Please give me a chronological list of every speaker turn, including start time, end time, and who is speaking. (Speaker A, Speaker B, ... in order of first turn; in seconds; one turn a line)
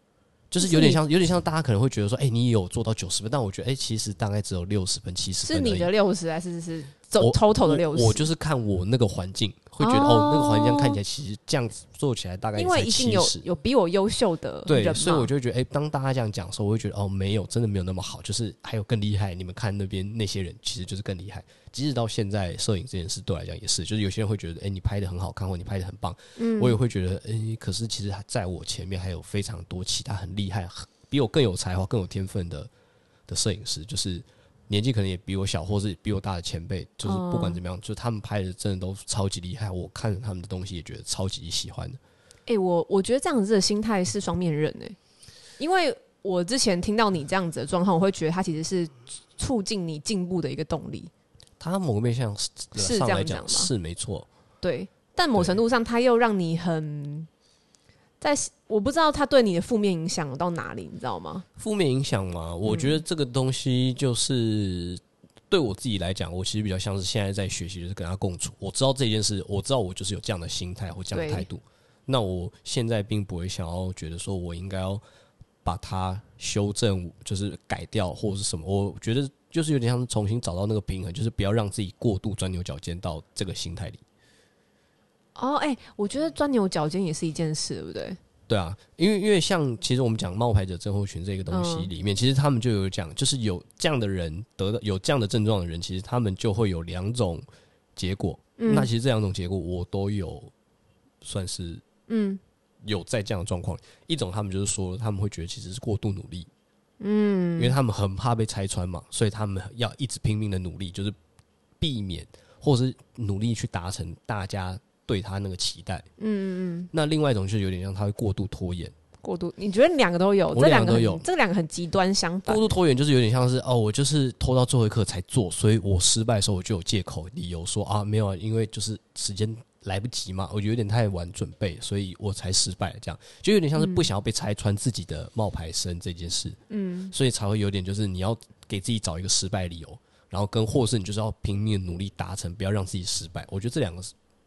Speaker A: 0.5-5.9
Speaker B: 0.6-1.0
Speaker B: 5.4-8.3
Speaker A: 7.2-13.4
Speaker B: 9.8-11.0
Speaker B: 12.6-15.3
Speaker A: 14.7-32.7
Speaker B: 26.4-26.8
Speaker A: 33.3-42.0
Speaker B: 37.0-37.6
Speaker B: 42.5-45.0
Speaker B: 45.6-51.1
Speaker A: 51.6-54.3
Speaker B: 52.8-53.7
Speaker B: 54.6-57.3
Speaker B: 58.2-61.5
Speaker A: 61.6-75.0
Speaker B: 62.6-63.0
Speaker B: 71.1-71.5
Speaker A: 75.6-84.0
Speaker B: 85.4-88.2
Speaker A: 88.5-97.5
Speaker B: 91.5-91.9
Speaker A: 98.0-100.5
Speaker B: 98.6-98.9
Speaker A: 101.2-101.8
Speaker B: 102.1-102.4
Speaker A: 102.8-106.5
Speaker B: 107.0-107.7
Speaker A: 107.6-111.1
Speaker A: 111.8-116.1
Speaker B: 116.2-116.9
Speaker A: 116.9-118.9
Speaker B: 119.2-122.7
Speaker A: 120.5-121.2
Speaker A: 122.5-136.6
Speaker B: 133.8-134.1
Speaker B: 136.7-137.1
Speaker A: 137.1-144.1